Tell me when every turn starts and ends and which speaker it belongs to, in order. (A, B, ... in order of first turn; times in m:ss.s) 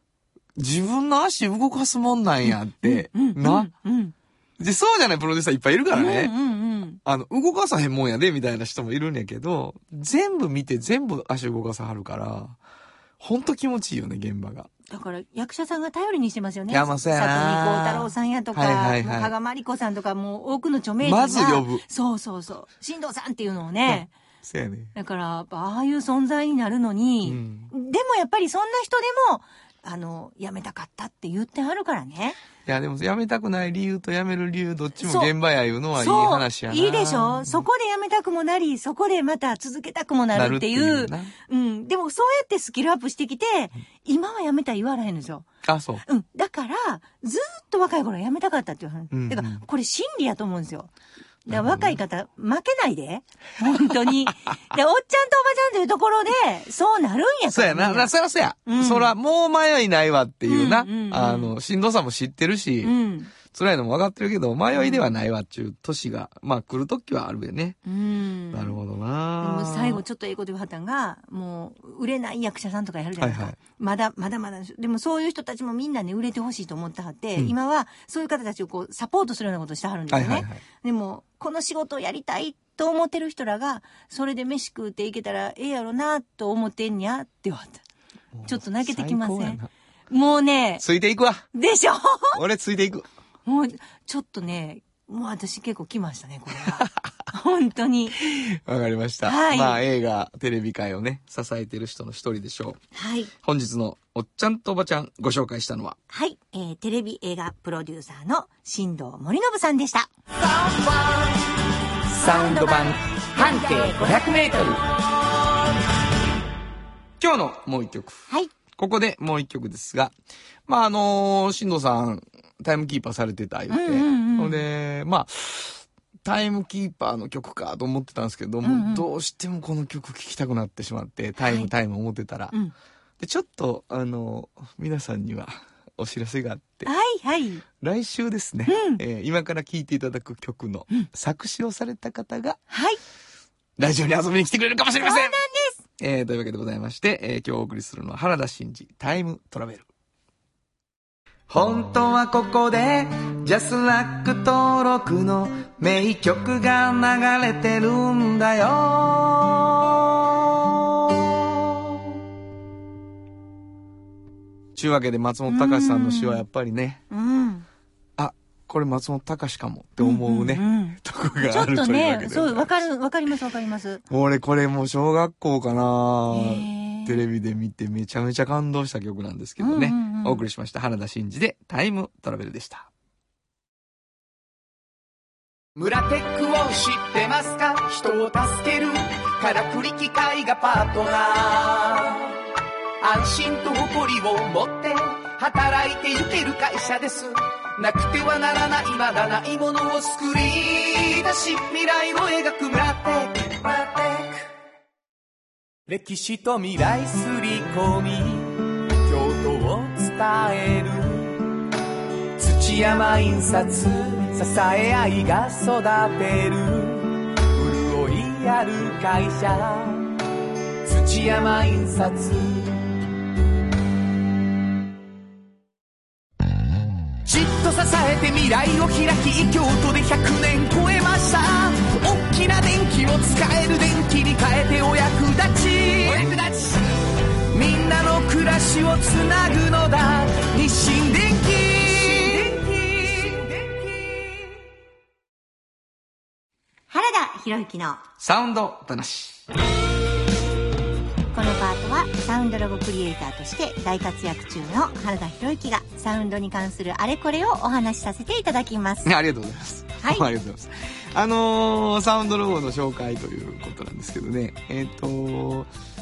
0:00.6-0:03.7 A
0:02.4-0:04.2 B
0:04.6-0:06.3 A
0:05.9-0:07.0 B
0:07.0-0:12.6 A
0:13.2-0:14.7 A
0:14.9-0:24.1 B
0:16.7-0:19.3 A
0:21.0-0:21.8 A
0:23.8-0:24.9 A
0:25.0-0:32.4 B
0:27.2-0:27.7 A
0:32.6-0:37.6 A
0:35.0-0:35.3 B
0:36.0-0:45.5 B
0:40.3-0:41.3 A
0:45.6-0:46.0 A
0:46.1-0:50.9 B
0:49.1-0:49.6 A
0:51.5-0:58.1 B
0:51.5-0:52.0 A
0:53.6-0:54.3 A
0:57.5-1:02.9 A
0:58.6-0:59.1 B
1:00.5-1:01.6 B
1:02.8-1:03.3 B
1:03.4-1:07.8 A
1:04.7-1:05.1 B
1:07.9-1:08.8 B
1:08.5-1:10.0 A
1:09.4-1:27.8 B
1:13.2-1:13.6 A
1:20.1-1:20.6 A
1:28.3-1:29.7 A
1:28.5-1:30.8 B
1:30.8-1:31.5 A
1:31.5-1:32.4 B
1:32.3-1:33.1 A
1:33.5-1:38.2 B
1:36.6-1:36.9 A
1:38.2-1:42.8 A
1:39.2-1:39.8 B
1:42.9-1:43.3 B
1:43.4-1:46.0 A
1:46.1-1:50.1 B
1:50.4-1:51.4 C
1:52.1-1:54.8 A
1:52.2-1:54.4 B
1:57.2-2:00.2 A
2:00.7-2:12.6 A
2:03.7-2:04.6 B
2:08.6-2:09.1 B
2:11.4-2:11.7 B
2:13.2-2:16.9 A
2:16.8-2:17.6 B
2:17.8-2:22.6 A
2:18.7-2:19.0 B
2:22.7-2:23.0 B
2:23.8-2:25.4 A
2:25.0-2:25.8 B
2:26.0-2:29.9 A
2:31.5-2:41.3 A
2:44.8-2:47.0 A
2:45.5-2:46.4 B
2:47.1-2:47.7 B
2:48.2-2:52.8 A
2:50.0-2:54.0 B
2:54.1-3:02.9 A
2:56.3-2:57.2 B
2:59.6-3:00.4 B
3:05.8-3:12.4 C
3:13.0-3:24.5 C
3:25.9-3:31.5 C
3:32.4-3:40.1 C
3:40.8-3:43.0 C
3:47.2-3:56.8 C
3:57.5-4:04.3 C
4:06.9-4:08.0 B
4:08.2-4:09.4 A
4:11.3-4:19.1 B
4:19.0-4:25.7 A
4:20.0-4:20.3 B